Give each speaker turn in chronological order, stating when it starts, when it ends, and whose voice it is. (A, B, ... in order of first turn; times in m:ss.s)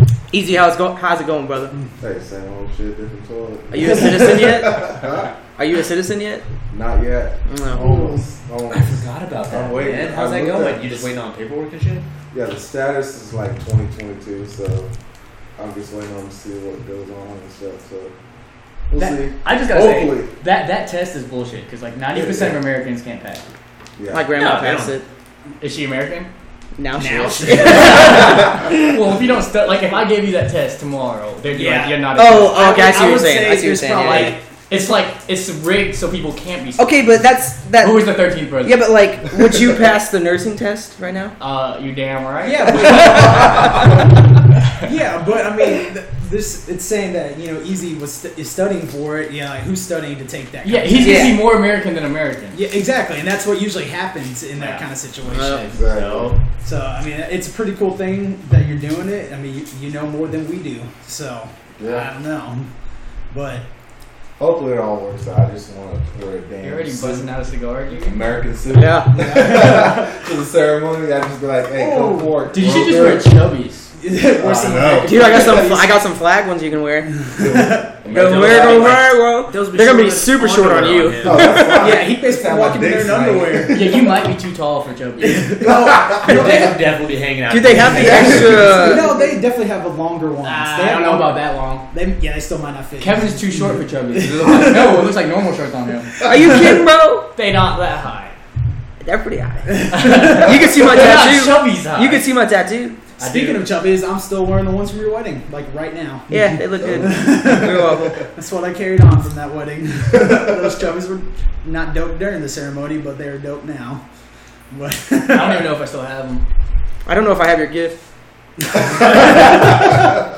0:00.3-0:01.8 A
0:02.0-0:05.3 B
0:03.7-0:05.0 A
0:05.6-0:06.4 A
0:06.7-0:11.1 B
0:07.5-0:08.2 A
0:08.7-0:12.0 C
0:12.3-0:14.9 B
0:15.6-0:18.1 B
0:18.9-0:20.3 B
0:19.0-0:23.4 D
0:22.1-0:22.6 B
0:24.0-0:24.3 B
0:24.1-0:25.0 A
0:24.3-0:25.0 C
0:25.6-0:26.3 D
0:26.8-0:28.4 A
0:27.0-0:28.5 E
0:27.6-0:32.6 D
0:31.5-0:34.4 E
0:32.1-0:34.4 A
0:34.0-0:37.2 D
0:36.8-0:41.4 A
0:37.7-0:39.1 D
0:41.4-0:43.2 D
0:42.4-0:44.0 E
0:42.7-0:43.7 A
0:44.8-0:51.4 E
0:50.6-0:52.6 D
0:51.0-0:51.5 A
0:52.5-0:55.7 E
0:54.6-0:56.4 C
0:55.3-0:55.8 A
0:55.7-0:56.3 B
0:56.6-1:02.7 E
1:01.8-1:02.1 B
1:03.3-1:03.6 E
1:04.4-1:07.3 B
1:06.6-1:08.3 D
1:08.0-1:13.4 B
1:08.7-1:09.1 A
1:09.2-1:10.1 E
1:11.7-1:12.5 E
1:12.5-1:13.9 D
1:14.0-1:15.9 E
1:14.4-1:15.7 B
1:15.0-1:17.1 A
1:17.3-1:17.9 E
1:17.4-1:17.9 B
1:18.0-1:21.6 C
1:18.1-1:19.0 D
1:18.1-1:22.0 A
1:21.2-1:24.1 B
1:21.8-1:24.0 E
1:23.7-1:25.8 D
1:25.2-1:26.2 E
1:25.6-1:26.7 B
1:26.1-1:28.9 C
1:26.3-1:26.7 A
1:27.5-1:29.1 A
1:27.9-1:28.8 B
1:28.6-1:35.1 E
1:30.4-1:31.8 D
1:33.0-1:36.6 D
1:36.2-1:37.3 A
1:37.3-1:38.4 D
1:39.0-1:43.0 A
1:39.9-1:42.3 D
1:39.9-1:40.4 E
1:43.2-1:43.6 D
1:43.2-1:54.0 E
1:46.3-1:48.3 A
1:46.7-1:47.1 B
1:54.7-1:55.7 E
1:55.3-1:56.4 D
1:57.0-1:58.0 A
1:58.8-2:00.0 E